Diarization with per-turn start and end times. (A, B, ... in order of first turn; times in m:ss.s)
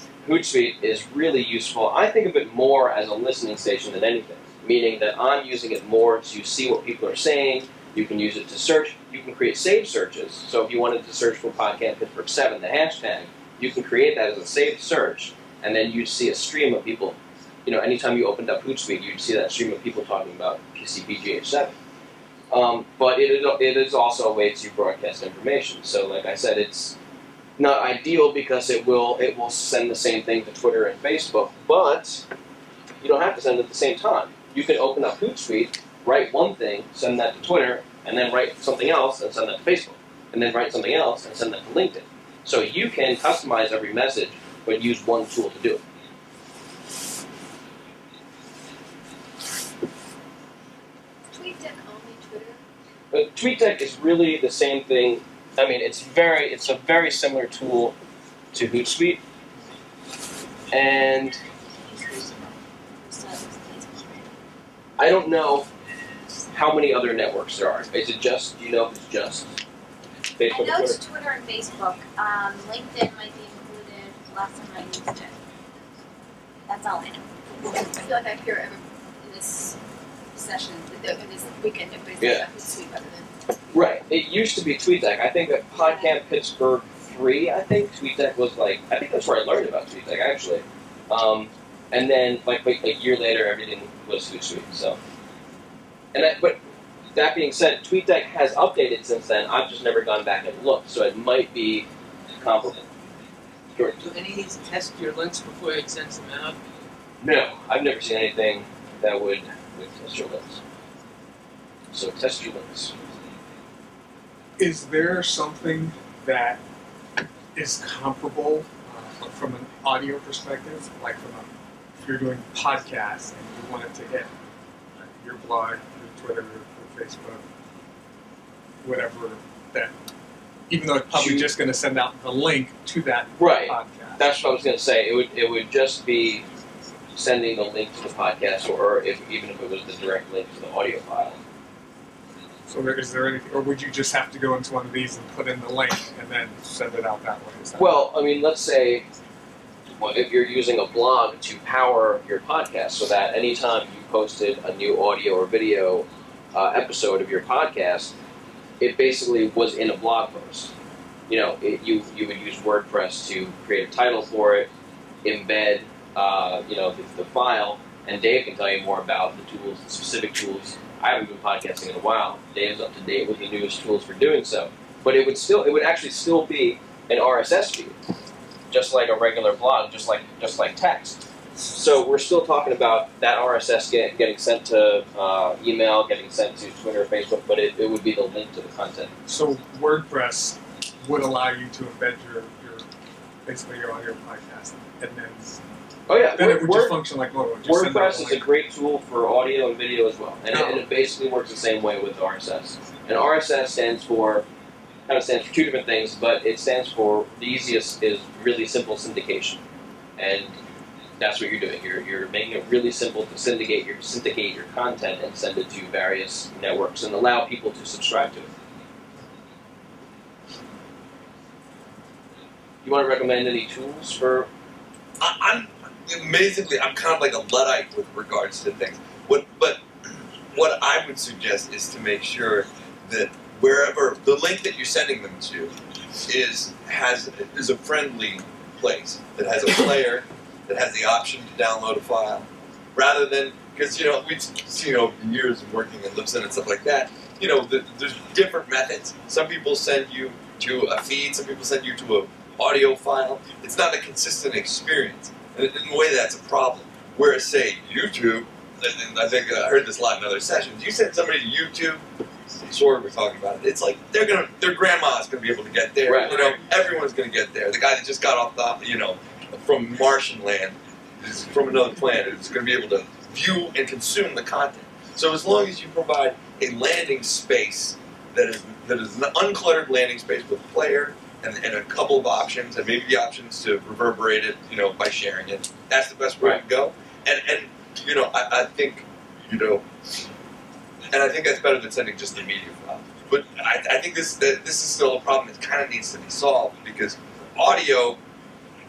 0:00.2-0:21.8 A
0:22.5-0:27.0 A
0:27.6-0:32.3 A
0:33.0-0:45.8 A
0:51.3-0:52.6 B
0:53.1-0:58.0 A
0:58.5-0:59.2 A
1:00.7-1:01.4 A
1:01.8-1:04.3 B
1:05.0-1:05.7 A
1:06.5-1:09.5 A
1:10.4-1:11.0 A
1:10.5-1:15.4 B
1:16.7-1:17.9 B
1:17.6-1:19.8 C
1:20.3-1:23.8 C
1:22.2-1:22.5 A
1:23.7-1:35.0 A
1:36.1-1:36.6 A
1:37.1-1:42.9 A
1:44.0-1:46.7 D
1:47.2-1:50.6 A
1:51.9-1:52.9 A
1:54.6-1:56.6 E
1:57.6-2:01.5 E
2:02.0-2:04.3 E
2:05.0-2:07.4 E
2:08.8-2:09.9 E
2:10.7-2:14.3 E
2:11.1-2:11.5 A
2:13.4-2:16.5 A
2:17.2-2:21.4 A
2:22.7-2:28.1 E
2:27.8-2:29.1 A
2:30.0-2:38.1 A
2:38.8-2:40.7 A
2:41.3-2:44.7 A
2:45.2-2:58.0 A
2:58.7-3:09.1 A
3:09.3-3:12.9 E
3:13.5-3:18.5 E
3:16.1-3:17.0 A
3:17.6-3:24.5 A
3:20.5-3:20.8 E
3:25.1-3:29.6 A
3:30.2-3:30.6 A
3:31.2-3:38.5 A
3:42.8-3:44.5 A
3:45.2-3:49.8 F
3:50.5-4:22.0 F
4:22.7-4:49.8 F
4:26.1-4:26.4 A
4:26.3-4:26.9 E
4:51.1-4:58.2 F